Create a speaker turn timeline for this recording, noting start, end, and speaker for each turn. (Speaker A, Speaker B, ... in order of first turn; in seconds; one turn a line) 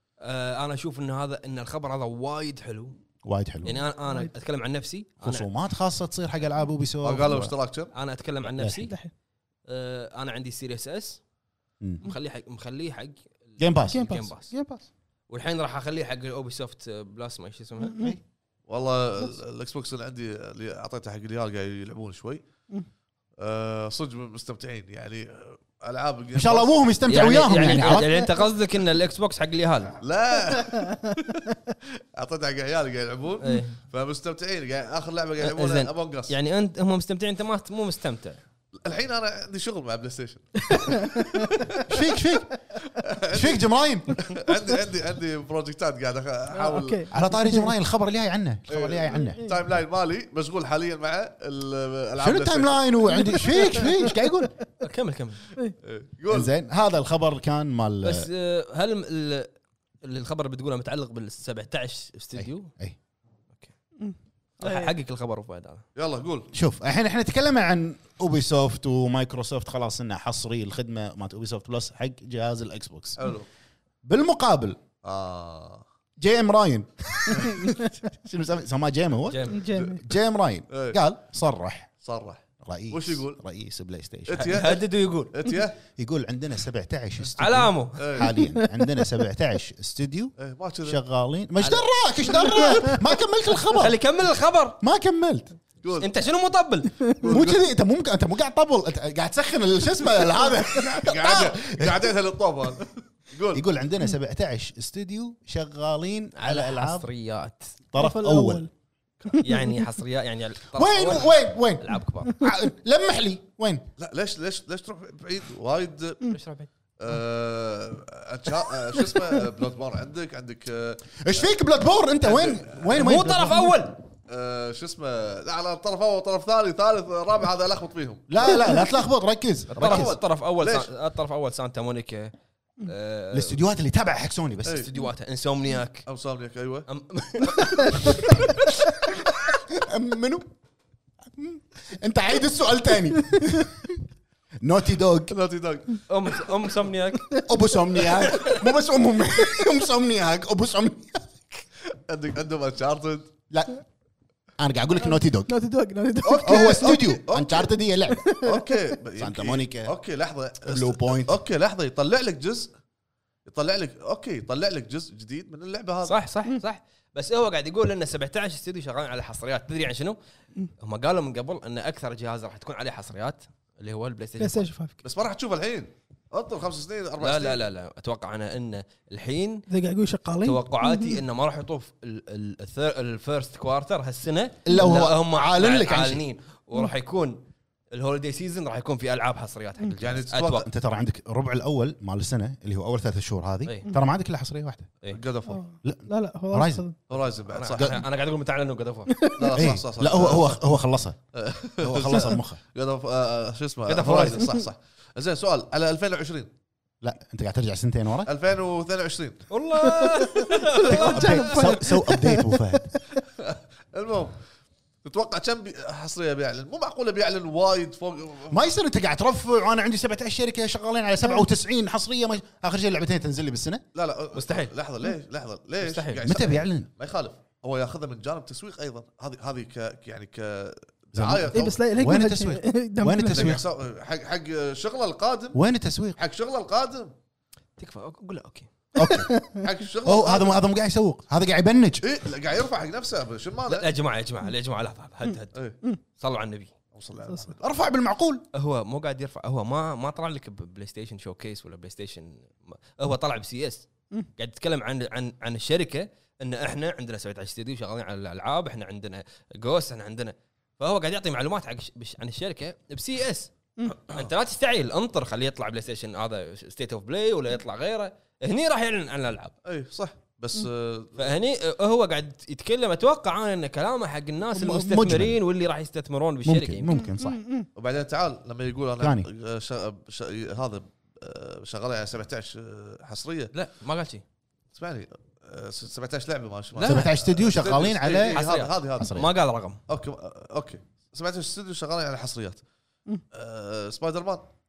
Speaker A: 0.2-2.9
Speaker B: 3.2-3.8
Speaker A: 3.6-5.5
Speaker C: 4.0-4.3
Speaker B: 5.2-7.5
Speaker D: 7.0-7.9
Speaker A: 7.9-9.0
Speaker B: 8.6-8.9
Speaker C: 8.8-9.1
Speaker A: 9.7-11.2
Speaker A: 12.0-14.5
Speaker B: 13.6-14.1
Speaker C: 13.9-14.9
Speaker A: 15.3-18.0
Speaker C: 17.8-18.1
Speaker D: 18.7-22.4
Speaker D: 23.4-26.8
Speaker B: 26.3-28.2
Speaker A: 27.1-30.0
Speaker D: 30.0-31.4
Speaker C: 30.5-30.9
Speaker D: 32.1-36.3
Speaker A: 33.4-33.8
Speaker A: 35.4-38.4
Speaker D: 38.8-41.9
Speaker C: 40.7-41.8
Speaker B: 41.9-42.5
Speaker D: 42.8-47.1
Speaker B: 43.3-44.3
Speaker C: 46.5-47.7
Speaker B: 47.1-49.4
Speaker D: 48.7-53.1
Speaker C: 49.1-49.6
Speaker B: 52.2-54.5
Speaker C: 53.1-54.5
Speaker A: 54.8-55.5
Speaker D: 55.8-56.5
Speaker B: 56.3-58.3
Speaker A: 58.0-59.5
Speaker A: 60.0-62.7
Speaker B: 62.3-63.0
Speaker C: 64.0-64.9
Speaker A: 64.6-65.8
Speaker D: 66.0-66.5
Speaker B: 66.5-73.3
Speaker D: 73.2-73.5
Speaker B: 74.0-74.8
Speaker D: 75.0-75.8
Speaker B: 76.2-81.9
Speaker C: 77.3-77.9
Speaker A: 79.3-79.6
Speaker C: 79.5-80.0
Speaker D: 79.7-80.0
Speaker D: 80.7-81.0
Speaker D: 82.0-83.4
Speaker B: 82.6-84.6
Speaker D: 84.3-85.8
Speaker A: 84.3-85.3
Speaker B: 86.0-94.0
Speaker A: 87.3-88.1
Speaker D: 88.0-88.3
Speaker C: 88.3-89.1
Speaker D: 90.4-91.0
Speaker C: 92.4-93.0
Speaker A: 93.7-94.8
Speaker B: 94.8-95.5
Speaker D: 95.8-96.1
Speaker A: 96.0-97.0
Speaker D: 97.2-97.6
Speaker B: 97.2-102.1
Speaker D: 100.7-103.6
Speaker B: 103.5-107.1
Speaker A: 106.3-107.7
Speaker B: 107.9-108.7
Speaker C: 108.0-108.7
Speaker C: 109.3-109.9
Speaker A: 109.4-112.3
Speaker B: 110.7-113.8
Speaker C: 112.3-112.5
Speaker D: 114.0-116.3
Speaker A: 116.3-116.7
Speaker D: 117.0-121.5
Speaker B: 121.2-123.7
Speaker D: 122.2-123.1
Speaker A: 122.9-124.0
Speaker D: 124.3-128.7
Speaker B: 128.3-130.1
Speaker A: 129.7-132.3
Speaker D: 129.8-130.9
Speaker A: 132.8-133.6
Speaker B: 133.3-134.9
Speaker D: 134.6-134.9
Speaker A: 134.7-136.0
Speaker D: 136.1-136.9
Speaker A: 136.9-138.6
Speaker C: 137.8-138.1
Speaker B: 139.7-140.5
Speaker B: 141.3-144.1
Speaker B: 144.6-145.3
Speaker D: 145.3-146.0
Speaker A: 146.1-147.4
Speaker B: 147.4-151.6
Speaker A: 148.3-148.6
Speaker D: 152.1-153.3
Speaker B: 153.5-153.8
Speaker B: 154.6-155.5
Speaker C: 155.0-157.1
Speaker D: 156.2-157.7
Speaker B: 156.3-158.3
Speaker C: 158.1-158.7
Speaker D: 158.4-162.7
Speaker B: 159.2-159.9
Speaker B: 160.6-161.4
Speaker D: 163.4-166.1
Speaker A: 166.0-170.2
Speaker A: 170.8-174.7
Speaker C: 174.4-175.0
Speaker D: 175.0-177.6
Speaker A: 177.2-179.7
Speaker C: 179.7-181.2
Speaker A: 180.4-187.4
Speaker B: 184.6-186.2
Speaker C: 184.7-185.0
Speaker A: 187.9-190.7
Speaker D: 190.0-190.7
Speaker B: 190.7-194.9
Speaker A: 193.6-193.9
Speaker D: 195.1-195.6
Speaker C: 195.5-197.0
Speaker B: 195.8-196.8
Speaker D: 197.1-198.0
Speaker A: 197.5-199.3
Speaker B: 197.8-198.0
Speaker C: 199.1-199.6
Speaker D: 199.4-200.6
Speaker B: 199.5-201.2
Speaker D: 201.3-206.5
Speaker B: 201.8-202.6
Speaker A: 203.9-204.5
Speaker B: 207.0-208.3
Speaker D: 208.2-209.5
Speaker A: 209.5-211.8
Speaker C: 209.8-213.0
Speaker B: 210.8-212.9
Speaker D: 213.4-214.4
Speaker D: 215.0-218.6
Speaker B: 218.5-223.8
Speaker D: 223.9-231.8
Speaker A: 224.3-224.7
Speaker A: 225.8-226.3
Speaker B: 226.2-226.9
Speaker B: 231.1-233.6
Speaker C: 231.5-233.6
Speaker D: 233.3-235.6
Speaker B: 235.5-236.2
Speaker D: 236.2-237.1
Speaker A: 237.8-238.7
Speaker B: 238.9-239.3
Speaker C: 239.0-239.6
Speaker D: 239.6-240.6
Speaker B: 240.0-242.1
Speaker D: 242.0-243.9
Speaker A: 243.7-245.6
Speaker A: 246.2-246.7
Speaker D: 246.9-247.6
Speaker B: 247.6-248.4
Speaker A: 248.5-269.5
Speaker D: 269.6-271.3
Speaker A: 271.2-276.9
Speaker B: 274.5-275.4
Speaker B: 276.4-277.4
Speaker C: 276.9-277.7
Speaker D: 277.8-283.5
Speaker B: 279.0-279.3
Speaker A: 283.5-284.2
Speaker D: 284.7-289.1
Speaker A: 286.7-287.1
Speaker B: 286.8-288.4
Speaker A: 288.3-289.8
Speaker B: 288.9-289.3
Speaker D: 289.9-292.6
Speaker D: 293.3-294.4